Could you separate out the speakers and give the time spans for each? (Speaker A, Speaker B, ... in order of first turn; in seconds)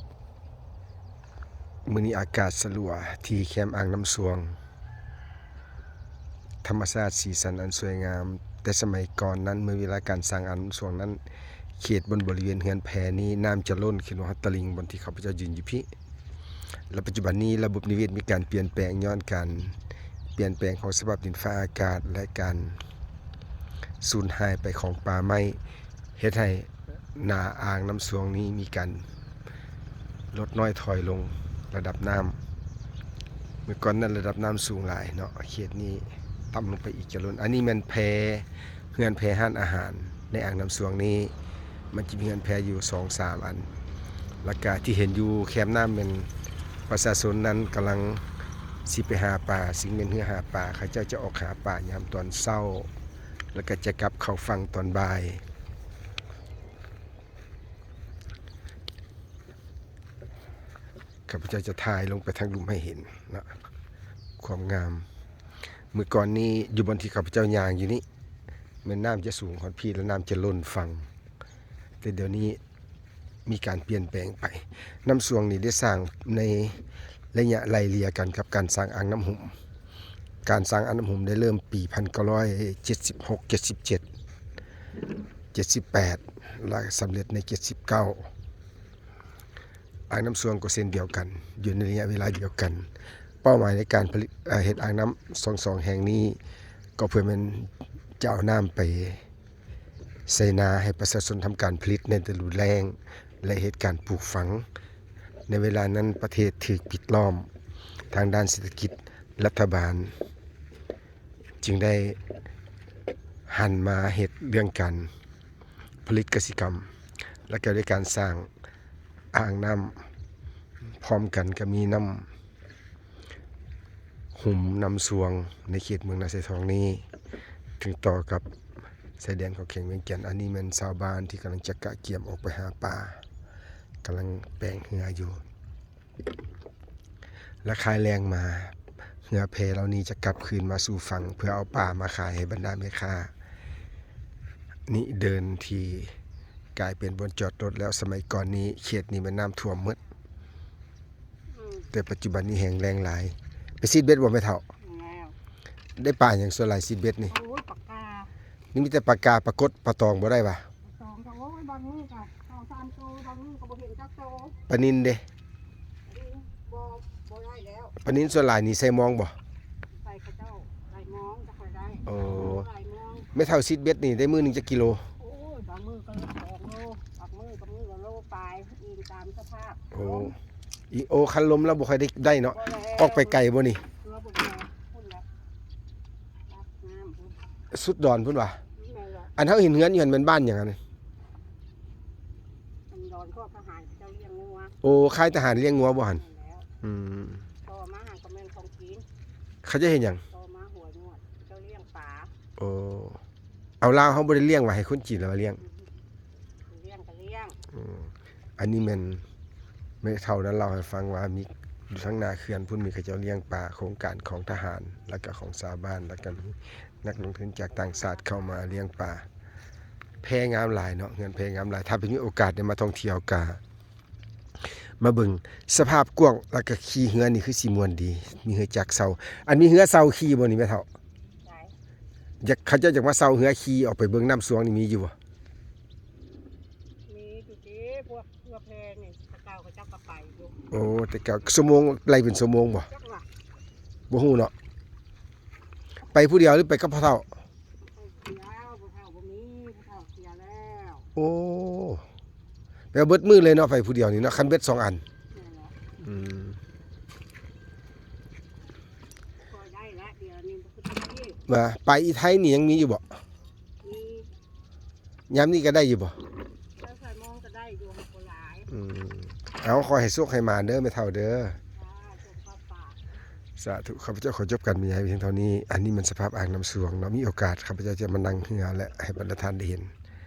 Speaker A: 1.9-4.6, 6.6-11.2, 11.8-15.9, 16.9-19.8, 20.4-22.8, 24.0-25.6, 26.2-29.0, 30.3-32.4, 33.6-41.3, 41.9-43.7, 44.4-46.3, 46.9-48.2, 48.8-52.9, 53.5-55.4, 61.3-63.5, 64.4-65.0, 65.9-68.0, 68.8-71.1, 72.0-72.6, 73.5-76.8, 77.3-79.5, 80.4-84.0, 85.5-88.3, 90.1-92.9, 93.4-96.4, 97.0-99.2, 100.3-104.7, 105.5-107.5, 108.1-110.1, 111.6-112.2, 113.5-115.1, 116.0-116.9, 117.5-118.5, 119.3-120.0, 121.0-122.3, 124.3-127.0, 127.8-128.4, 129.2-133.2, 134.0-135.4, 137.6-138.8, 139.3-143.3, 144.9-146.1, 146.7-150.0, 151.9-154.6, 156.0-157.3, 158.7-160.7, 164.7-165.2, 168.0-169.3, 172.0-172.7, 173.3-175.1, 179.9-180.3, 180.9-183.8, 187.7-188.6, 189.4-190.8, 194.8-196.2, 196.8-197.5, 199.6-200.2, 202.6-203.2, 203.8-205.6, 207.7-209.2, 210.0-219.2, 220.2-223.6, 225.0-230.9, 232.4-235.1, 240.7-242.9, 244.1-244.5, 246.1-247.3, 251.1-252.0, 252.9-255.0, 256.0-256.6, 261.4-263.0, 265.3-266.2, 268.7-271.6, 273.6-279.9
Speaker B: 151.5-151.9, 154.8-155.3, 157.3-158.3, 160.8-164.6, 166.1-168.0, 169.9-173.3, 175.2-180.3, 182.5-183.4, 184.0-185.2, 186.5-187.4, 188.8-189.3, 192.9-194.8, 196.1-196.7, 197.6-199.1, 200.3-202.3, 206.7-207.6, 231.4-231.7, 237.1-240.6, 242.9-243.3, 247.9-251.1, 255.3-255.8, 259.4-261.4, 263.8-264.3, 266.8-268.7, 271.8-273.0